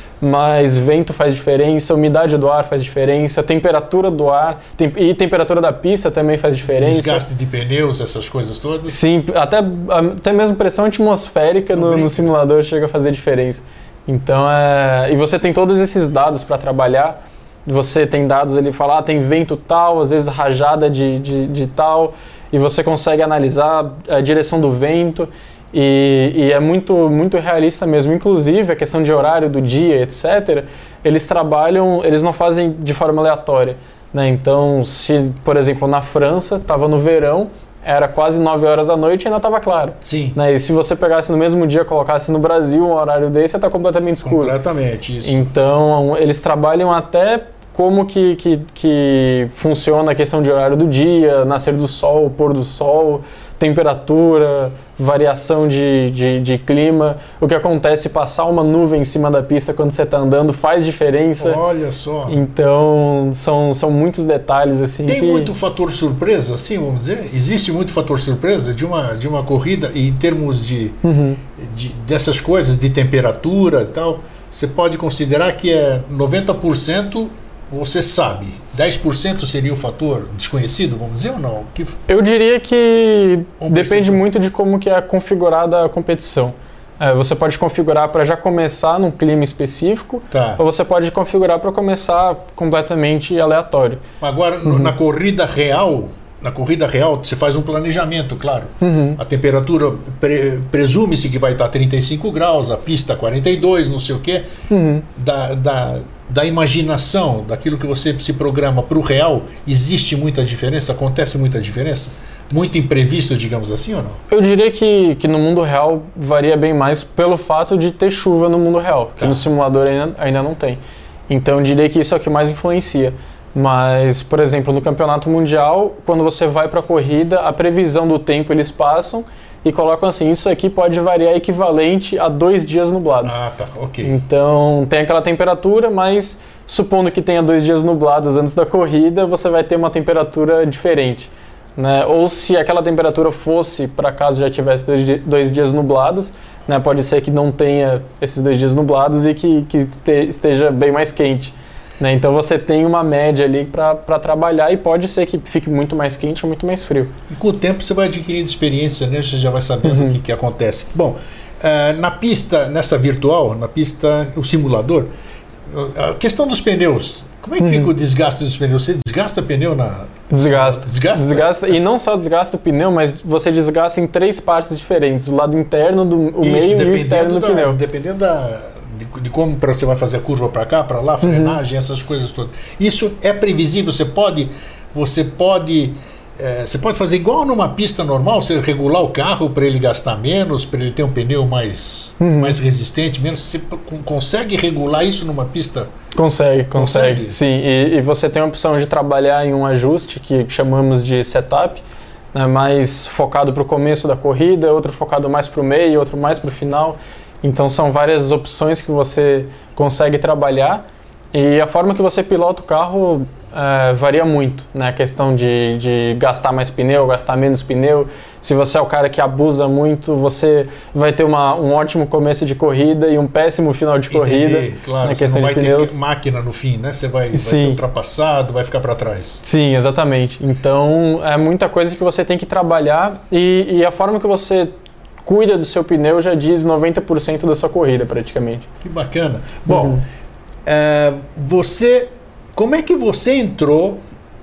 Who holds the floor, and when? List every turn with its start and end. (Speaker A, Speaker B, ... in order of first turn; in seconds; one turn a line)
Speaker A: 0.2-7.2
Speaker B: 6.7-9.0
Speaker A: 8.9-44.5
Speaker B: 11.7-12.3
Speaker B: 40.0-40.4
Speaker B: 44.2-45.5
Speaker A: 45.2-61.6
Speaker B: 61.4-62.4
Speaker A: 62.3-65.5
Speaker B: 65.0-71.0
Speaker A: 71.0-71.4
Speaker B: 71.5-82.0
Speaker A: 82.1-94.0
Speaker B: 83.6-84.2
Speaker B: 90.3-90.6
Speaker B: 94.2-104.5
Speaker A: 94.6-94.9
Speaker A: 98.8-99.2
Speaker A: 104.7-105.0
Speaker B: 105.1-114.2
Speaker A: 114.3-133.4
Speaker B: 119.2-119.4
Speaker B: 133.2-134.2
Speaker A: 134.0-157.1
Speaker B: 157.3-165.1
Speaker A: 159.8-160.2
Speaker B: 165.7-171.8
Speaker A: 167.6-167.9
Speaker A: 170.3-177.8
Speaker B: 176.4-195.9
Speaker A: 181.2-181.6
Speaker A: 192.2-192.6
Speaker A: 196.2-201.8
Speaker B: 196.7-197.3
Speaker A: 202.3-225.9
Speaker B: 224.1-229.4
Speaker A: 227.3-227.8
Speaker A: 229.4-234.7
Speaker A: 235.2-238.7
Speaker B: 238.8-240.0
Speaker A: 239.7-240.0
Speaker B: 240.6-244.0